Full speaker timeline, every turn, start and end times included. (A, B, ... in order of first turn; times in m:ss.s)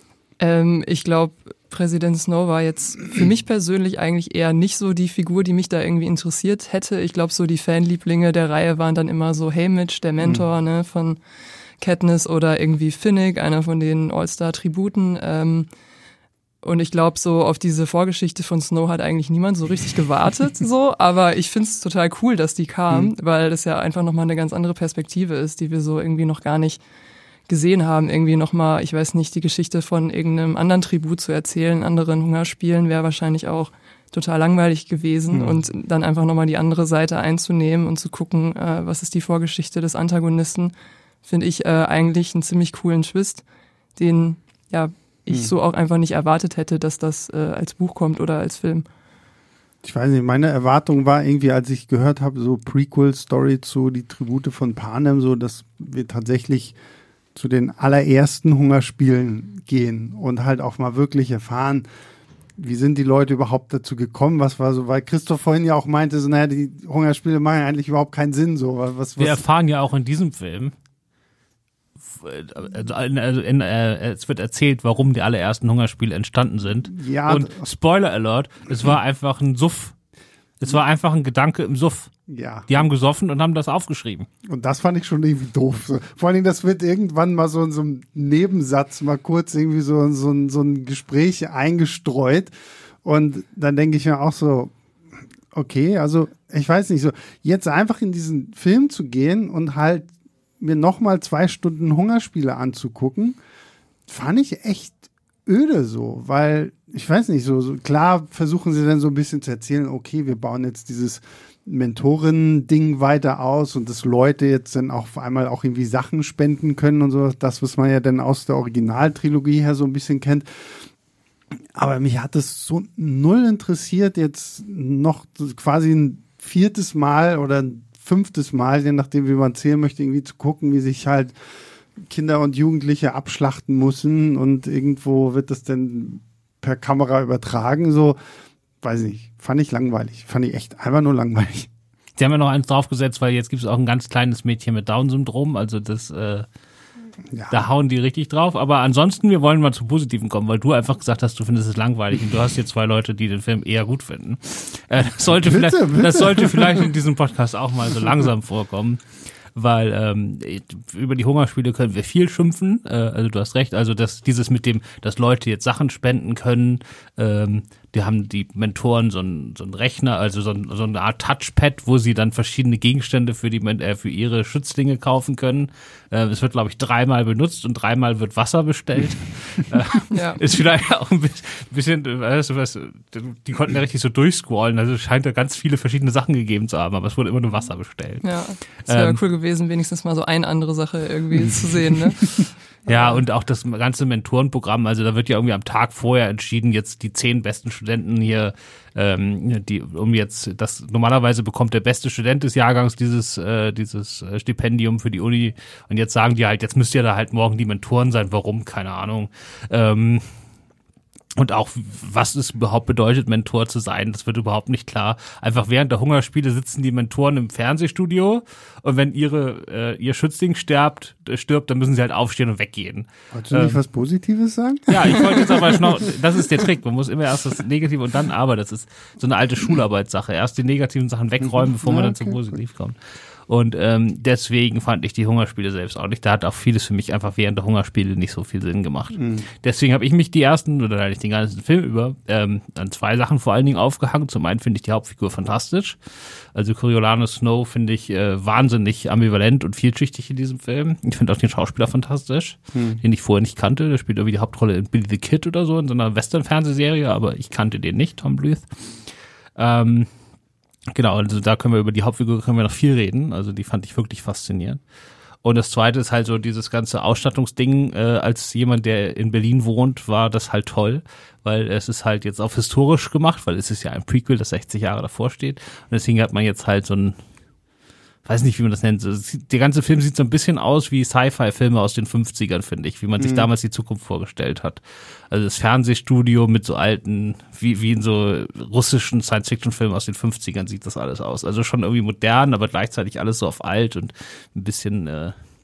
0:00.4-0:11.2 A
0:11.8-0:15.7 A
0:16.6-0:26.8 A
0:27.5-0:40.7 A
0:35.3-0:35.6 B
0:41.2-0:43.4 A
0:44.0-0:48.9 A
0:49.8-0:56.8 B
0:57.4-1:01.8 B
1:02.6-1:09.4 B
1:09.2-1:10.7 C
1:12.1-1:20.0 C
1:16.9-1:17.6 B
1:20.6-1:22.1 C
1:22.3-1:22.9 B
1:22.7-1:24.3 C
1:24.5-1:32.5 B
1:33.0-1:34.7 B
1:35.5-1:40.1 B
1:40.6-1:43.4 B
1:44.1-2:00.8 B
2:01.8-2:11.3 B
2:12.0-2:18.2 B
2:18.8-2:21.7 B
2:22.2-2:26.5 C
2:27.3-2:27.6 B
2:27.5-2:39.0 C
2:35.4-2:36.9 B
2:39.6-3:08.3 C
3:00.1-3:00.4 A
3:08.2-3:12.3 A
3:08.8-3:09.2 C
3:12.9-3:30.2 C
3:31.4-3:43.8 C
3:43.3-3:46.6 B
3:44.9-3:53.0 C
3:51.4-3:52.5 B
3:53.5-4:18.7 C
3:59.2-3:59.5 B
4:12.7-4:13.0 B
4:19.6-4:20.1 C
4:20.9-4:24.8 C
4:25.4-4:37.2 C
4:38.2-4:55.4 C
4:43.2-4:43.5 B